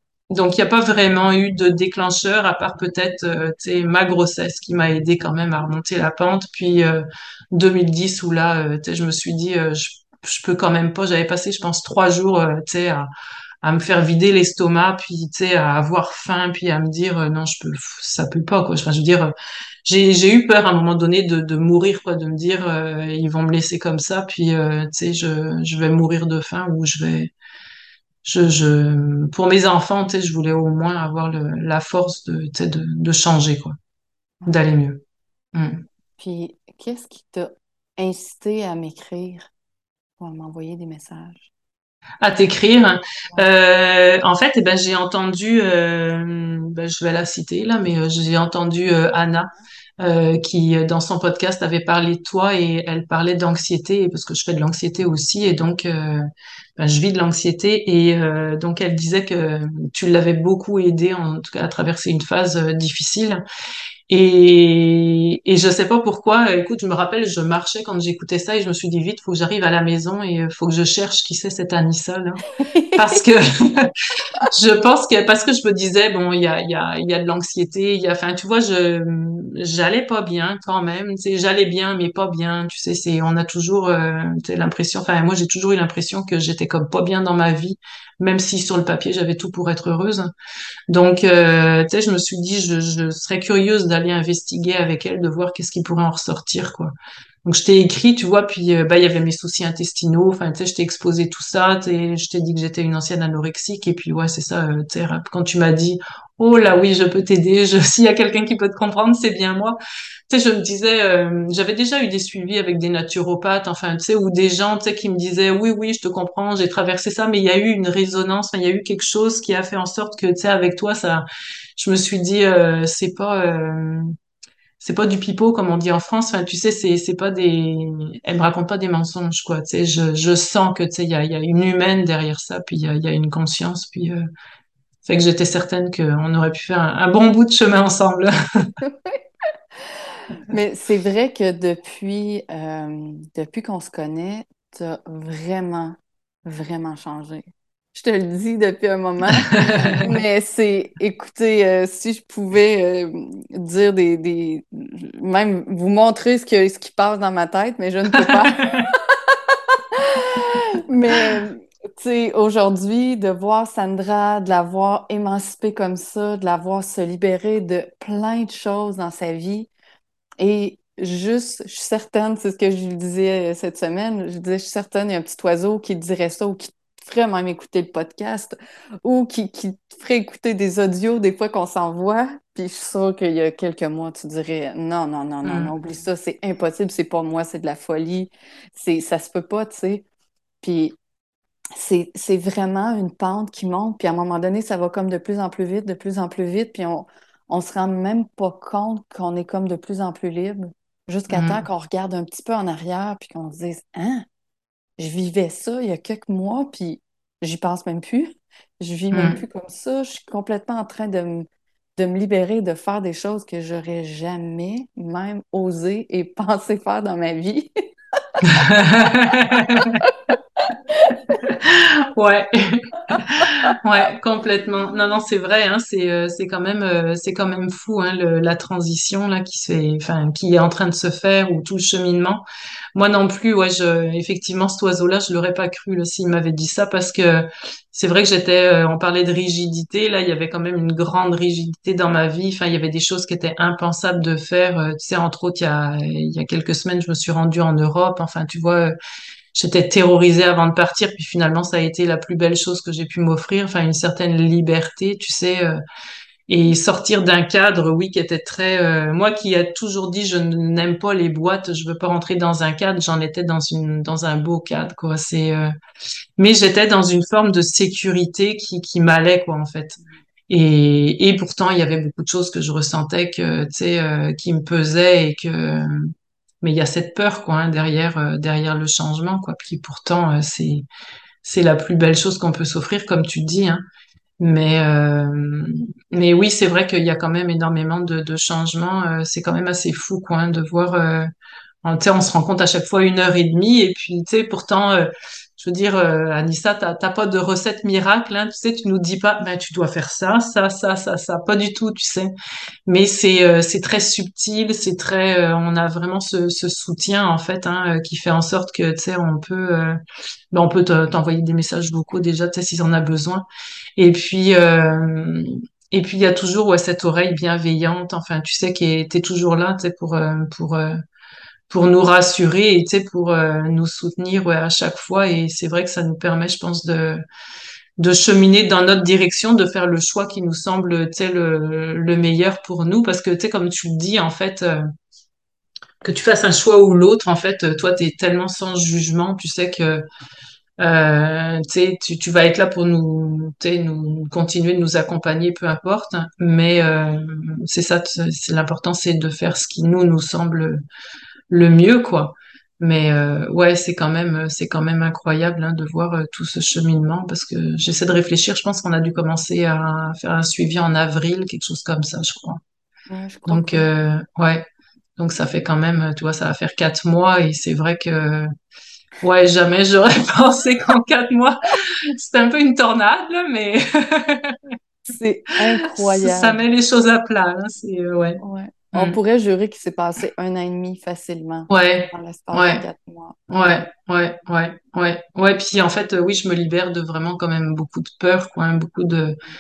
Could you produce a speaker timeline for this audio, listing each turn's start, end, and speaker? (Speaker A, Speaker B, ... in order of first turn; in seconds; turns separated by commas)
Speaker A: 0.3-13.1, Speaker A: 13.6-19.3, Speaker A: 19.9-27.3, Speaker A: 28.2-33.8, Speaker A: 34.5-35.0, Speaker A: 35.5-35.9, Speaker B: 36.2-39.5, Speaker B: 40.2-41.5, Speaker A: 42.2-56.3, Speaker A: 56.8-63.4, Speaker A: 64.1-72.4, Speaker B: 72.6-73.2, Speaker A: 73.0-73.9, Speaker A: 74.4-90.3, Speaker A: 90.9-121.2, Speaker A: 121.8-124.1, Speaker A: 124.8-134.2, Speaker A: 135.1-138.7, Speaker B: 138.8-139.2, Speaker B: 140.3-169.7, Speaker A: 149.4-150.0, Speaker A: 158.2-158.9, Speaker B: 170.4-190.1, Speaker A: 185.4-185.7, Speaker B: 190.6-191.0, Speaker B: 191.8-204.2, Speaker A: 201.3-201.6, Speaker B: 205.0-217.7, Speaker A: 209.1-209.4, Speaker B: 218.4-219.1, Speaker A: 218.4-220.0, Speaker B: 219.7-221.4, Speaker A: 221.4-249.0, Speaker A: 249.5-255.8, Speaker A: 256.5-265.7, Speaker A: 266.4-276.1, Speaker A: 276.6-280.9, Speaker A: 281.4-283.8, Speaker A: 284.4-291.3, Speaker A: 291.8-302.3, Speaker A: 302.9-310.0, Speaker A: 310.5-313.5, Speaker A: 314.0-320.9, Speaker A: 321.7-327.2, Speaker A: 328.0-334.8, Speaker A: 336.0-340.0, Speaker A: 340.8-350.8, Speaker A: 351.5-362.6, Speaker B: 363.1-363.9, Speaker A: 363.5-364.6, Speaker A: 365.2-368.5, Speaker A: 369.2-374.6, Speaker B: 375.1-376.6, Speaker A: 375.9-378.4, Speaker B: 378.4-383.4, Speaker A: 381.7-382.8, Speaker A: 383.5-389.4